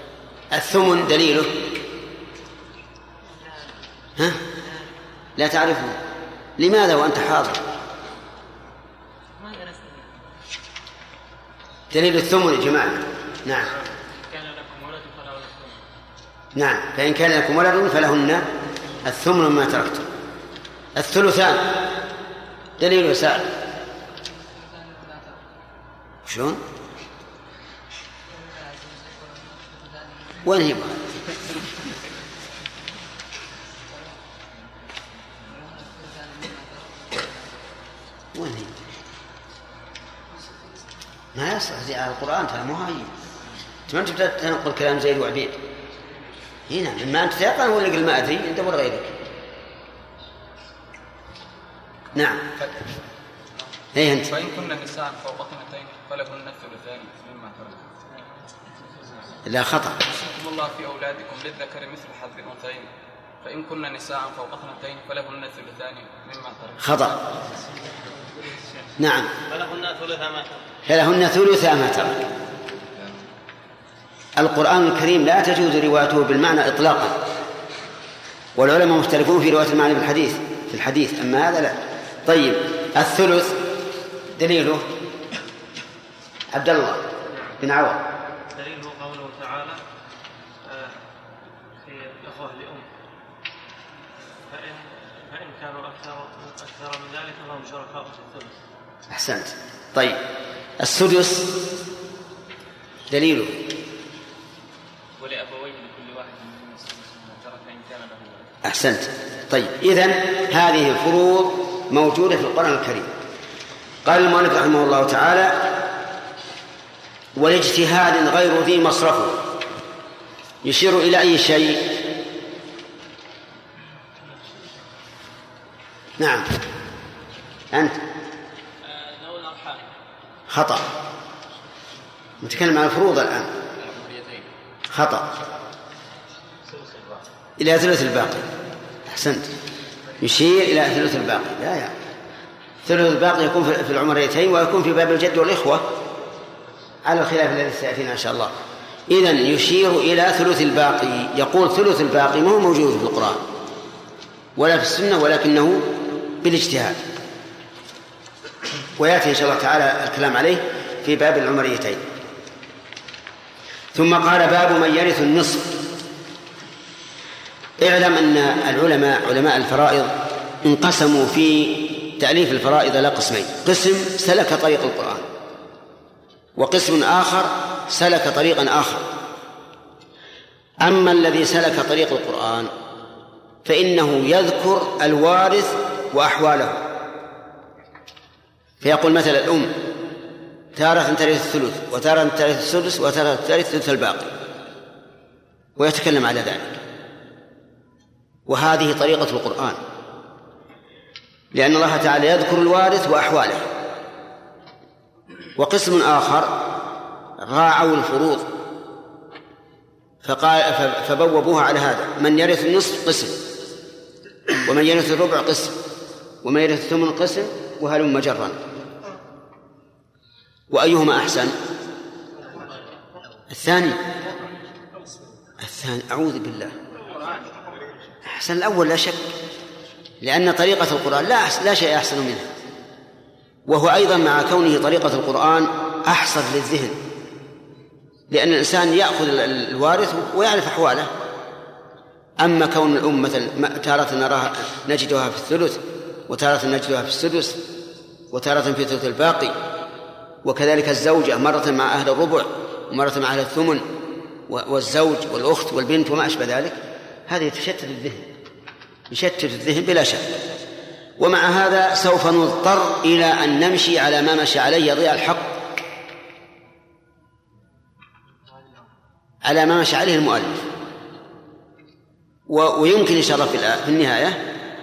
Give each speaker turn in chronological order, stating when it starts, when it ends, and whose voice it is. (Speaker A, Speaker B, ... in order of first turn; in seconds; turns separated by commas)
Speaker A: 0.5-1.6, Speaker B: 4.5-4.8, Speaker A: 5.4-6.0, Speaker A: 6.6-7.6, Speaker B: 9.4-10.1, Speaker A: 11.9-13.7, Speaker B: 13.6-15.8, Speaker A: 16.6-18.5, Speaker A: 19.0-20.1, Speaker A: 21.0-21.8, Speaker A: 22.8-23.5, Speaker A: 26.3-26.6, Speaker C: 28.3-30.3, Speaker A: 30.4-31.1, Speaker C: 35.7-37.2, Speaker A: 38.4-38.8, Speaker A: 41.4-43.1, Speaker A: 43.9-45.6, Speaker A: 46.7-49.1, Speaker A: 52.1-52.5, Speaker A: 53.9-54.3, Speaker C: 54.3-57.9, Speaker A: 59.5-60.0, Speaker C: 60.0-62.9, Speaker C: 63.4-66.8, Speaker A: 66.8-67.2, Speaker A: 69.0-69.3, Speaker B: 69.5-70.6, Speaker A: 70.9-72.2, Speaker A: 74.4-77.2, Speaker A: 78.6-83.6, Speaker A: 84.3-84.9, Speaker A: 86.5-87.1, Speaker B: 87.3-87.6, Speaker A: 87.6-88.0, Speaker B: 88.5-89.8, Speaker B: 90.7-91.0, Speaker B: 91.8-92.9, Speaker B: 94.3-98.6, Speaker A: 99.1-100.2, Speaker A: 100.8-101.5, Speaker A: 103.1-103.6, Speaker D: 105.2-108.3, Speaker A: 108.6-113.1, Speaker A: 114.0-115.7, Speaker A: 117.4-119.4, Speaker A: 120.6-122.0, Speaker A: 126.2-126.6, Speaker A: 127.7-128.0, Speaker C: 128.9-129.7, Speaker A: 130.5-130.9, Speaker A: 132.4-133.5, Speaker D: 133.8-134.4, Speaker A: 134.9-135.3, Speaker B: 136.6-137.2, Speaker A: 137.6-138.5, Speaker A: 139.1-139.5, Speaker A: 140.2-141.9, Speaker A: 142.8-145.9, Speaker A: 147.1-148.6, Speaker A: 149.1-153.4, Speaker A: 154.6-157.0, Speaker A: 159.0-162.1, Speaker A: 163.9-165.8, Speaker A: 167.8-175.3, Speaker A: 176.6-179.1, Speaker A: 180.8-182.7, Speaker A: 183.7-186.8, Speaker A: 188.8-189.8, Speaker A: 190.8-194.3, Speaker A: 195.8-196.8, Speaker A: 198.5-199.8, Speaker A: 201.5-203.7, Speaker A: 205.6-206.7, Speaker A: 207.4-208.5, Speaker A: 210.2-213.4, Speaker A: 214.5-215.8, Speaker A: 216.4-218.6, Speaker A: 220.7-221.6, Speaker A: 223.5-224.0, Speaker A: 225.6-226.8, Speaker A: 228.2-229.3, Speaker A: 230.2-232.5, Speaker A: 233.7-237.0, Speaker A: 238.3-241.1, Speaker A: 242.4-247.6, Speaker A: 248.3-249.6, Speaker A: 250.4-253.9, Speaker A: 254.5-258.3, Speaker A: 259.1-260.4, Speaker A: 261.2-265.6, Speaker A: 269.4-270.7, Speaker A: 272.5-274.4